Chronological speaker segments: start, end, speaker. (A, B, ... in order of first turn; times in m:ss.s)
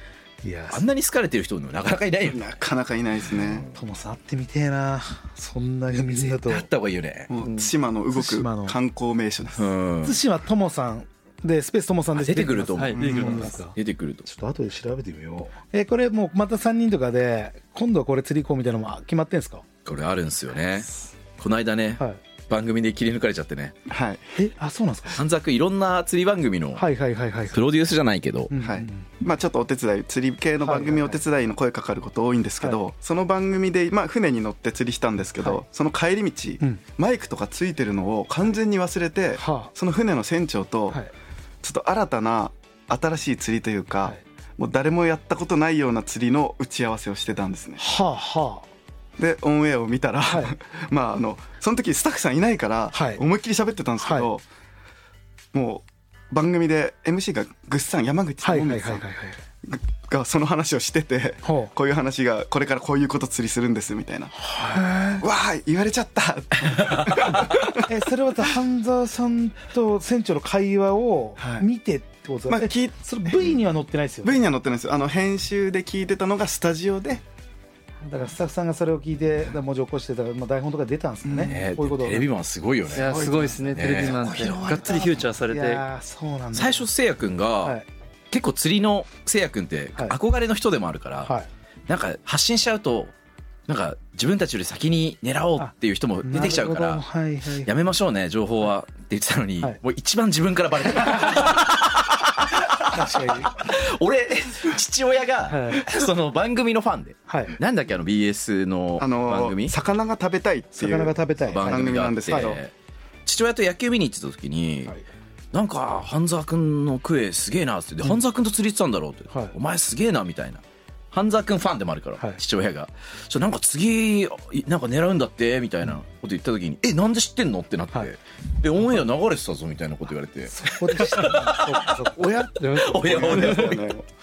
0:00.4-0:00.8 A
0:00.7-0:02.5 B
0:02.3-0:03.7 C
0:03.3-0:03.7 B
0:03.7-0:06.7 A
0:06.2-0:07.3 B
0:07.3-0:09.7 C
0:07.4-0:07.7 D
0:08.1-0:08.8 A
0:09.6-0:10.2 B
0:10.0-0:19.6 A
0:12.1-0:14.3 B
0:12.8-0:13.6 D
0:13.0-0:13.5 C
0:19.8-0:23.7 B
0:23.9-0:24.2 C
0:24.3-0:25.2 A
0:25.1-0:26.8 B
0:26.7-0:27.6 A
0:27.5-0:28.5 B
0:28.5-0:29.1 A
0:28.6-0:41.0 C
0:30.6-0:31.2 A
0:39.4-0:39.7 A
0:41.6-0:47.8 C
0:47.8-0:48.6 A
0:49.2-0:54.4 C
0:50.2-0:50.5 A
0:52.9-0:53.2 A
0:54.0-0:54.3 A
0:55.5-0:59.0 C
0:58.4-0:59.4 A
0:59.6-1:04.3 C
1:01.4-1:01.7 A
1:04.4-1:05.2 A
1:05.2-1:07.8 C
1:06.9-1:07.3 B
1:07.8-1:14.4 A
1:11.4-1:11.6 C
1:12.5-1:13.6 C
1:14.2-1:17.2 C
1:18.0-1:22.3 A
1:21.2-1:21.7 C
1:21.4-1:25.2 B
1:22.9-1:23.6 C
1:22.9-1:25.8 D
1:25.5-1:26.8 A
1:26.5-1:27.8 B
1:28.3-1:31.3 B
1:31.9-1:33.1 B
1:33.7-1:37.0 B
1:36.2-1:37.7 A
1:37.6-1:49.7 B
1:42.9-1:43.5 A
1:45.5-1:45.8 A
1:47.3-1:47.6 A
1:49.0-1:52.6 C
1:50.8-1:52.6 A
1:51.5-1:52.7 B
1:53.2-1:54.9 B
1:55.5-2:13.8 B
2:10.5-2:12.2 A
2:12.2-2:13.8 D
2:12.9-2:14.0 C